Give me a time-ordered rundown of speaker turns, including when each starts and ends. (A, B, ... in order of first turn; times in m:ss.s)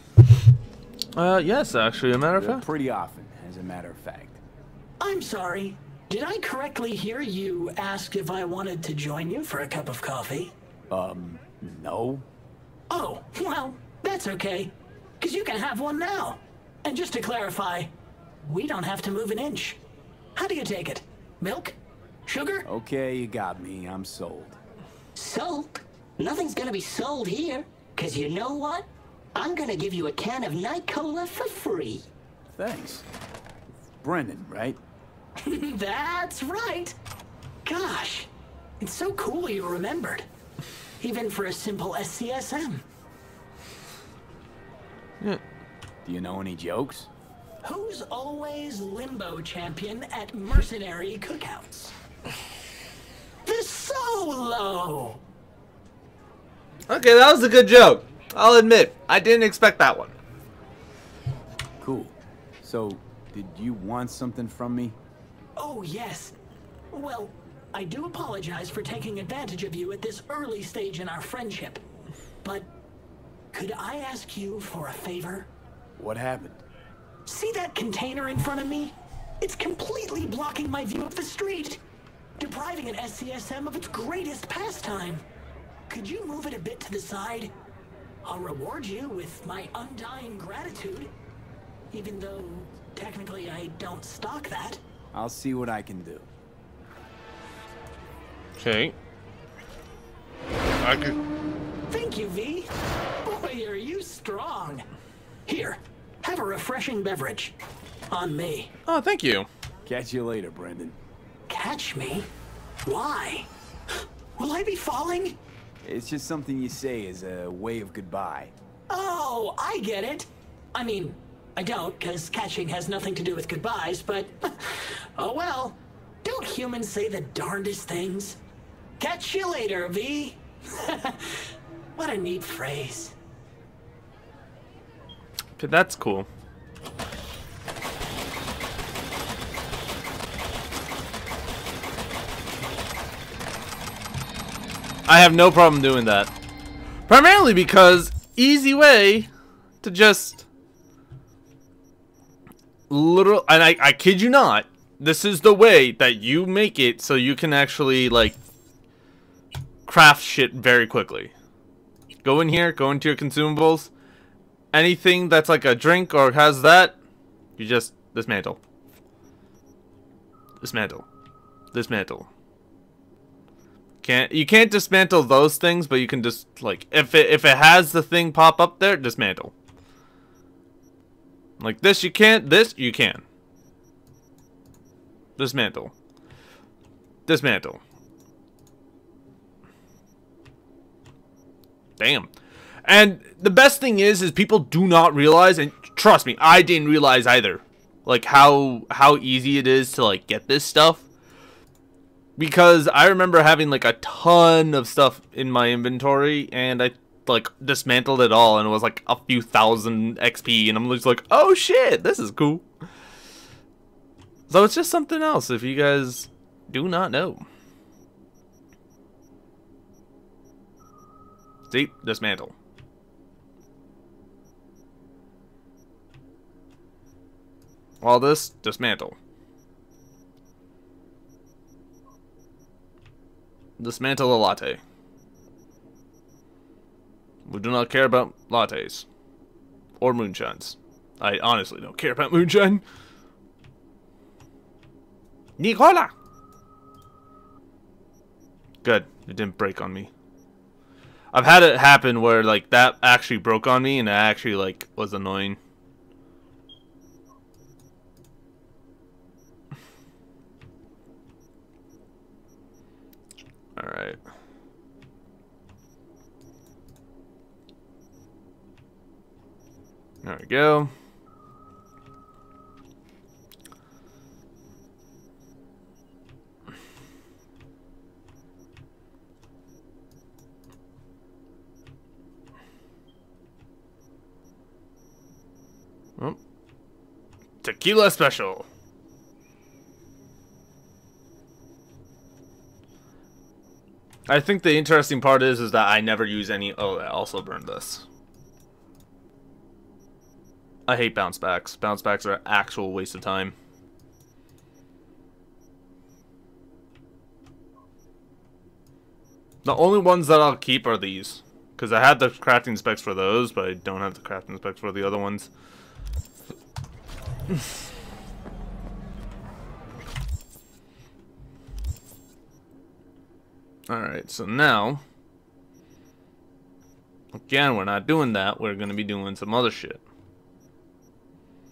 0:01.2-0:02.6 A
0:02.3-0:04.4 B
0:05.0-0:10.5 C
0:10.9-0:12.2 B
0:12.9-0:17.9 C
0:18.4-0:19.8 C
0:20.3-0:21.8 C
0:22.3-0:22.7 C
0:22.6-0:24.6 B
0:25.2-0:25.8 C
0:26.2-0:32.0 D
0:32.5-0:33.0 B
0:34.0-0:34.8 B
0:35.4-0:37.0 C
0:37.6-0:38.3 C
0:38.8-0:40.2 C
0:41.0-0:42.8 C
0:46.0-0:47.1 B
0:47.6-0:51.9 C
0:53.4-0:55.2 C
0:56.9-1:00.1 A
1:01.8-1:05.0 B
1:05.6-1:06.4 C
1:06.9-1:11.8 C
1:12.4-1:12.7 C
1:13.5-1:15.5 C
1:16.0-1:16.6 B
1:17.2-1:21.8 C
1:22.4-1:25.2 C
1:25.9-1:27.5 C
1:28.2-1:31.1 C
1:31.9-1:34.8 C
1:35.1-1:36.3 B
1:38.6-1:38.9 A
1:40.8-1:41.2 A
1:41.9-1:42.7 C
1:43.2-1:44.8 C
1:45.4-1:47.6 C
1:48.1-1:48.7 C
1:48.8-1:49.5 A
1:49.8-1:51.0 B
1:51.5-1:52.3 C
1:52.8-1:53.5 C
1:54.4-1:55.4 C
1:55.8-1:58.5 B
1:58.9-2:08.4 C
2:09.0-2:13.1 C
2:15.6-2:16.3 A
2:25.0-2:26.3 A
2:27.1-2:29.3 A
2:29.8-2:30.4 A
2:32.9-2:38.4 A
2:39.9-2:41.3 A
2:42.2-2:43.9 A
2:44.7-2:47.0 A
2:47.6-2:48.6 A
2:50.6-2:51.0 A
2:51.7-2:52.3 A
2:54.0-2:59.5 A
3:01.6-3:03.2 A
3:05.4-3:05.9 A
3:07.3-3:07.8 A
3:12.0-3:12.3 A
3:12.8-3:21.0 A
3:22.4-3:32.6 A
3:34.5-3:37.4 A
3:41.7-3:42.5 A
3:48.0-3:49.1 A
3:53.8-3:54.8 A
3:57.4-3:59.0 A
4:00.0-4:02.8 A
4:05.6-4:06.1 A
4:08.8-4:10.1 A
4:11.3-4:15.6 A
4:23.8-4:24.2 A
4:30.2-4:30.9 A
4:47.6-4:48.6 A
4:54.3-4:58.0 A
5:00.9-5:03.5 A
5:09.6-5:15.5 A
5:23.9-5:25.0 A
5:27.3-5:30.0 A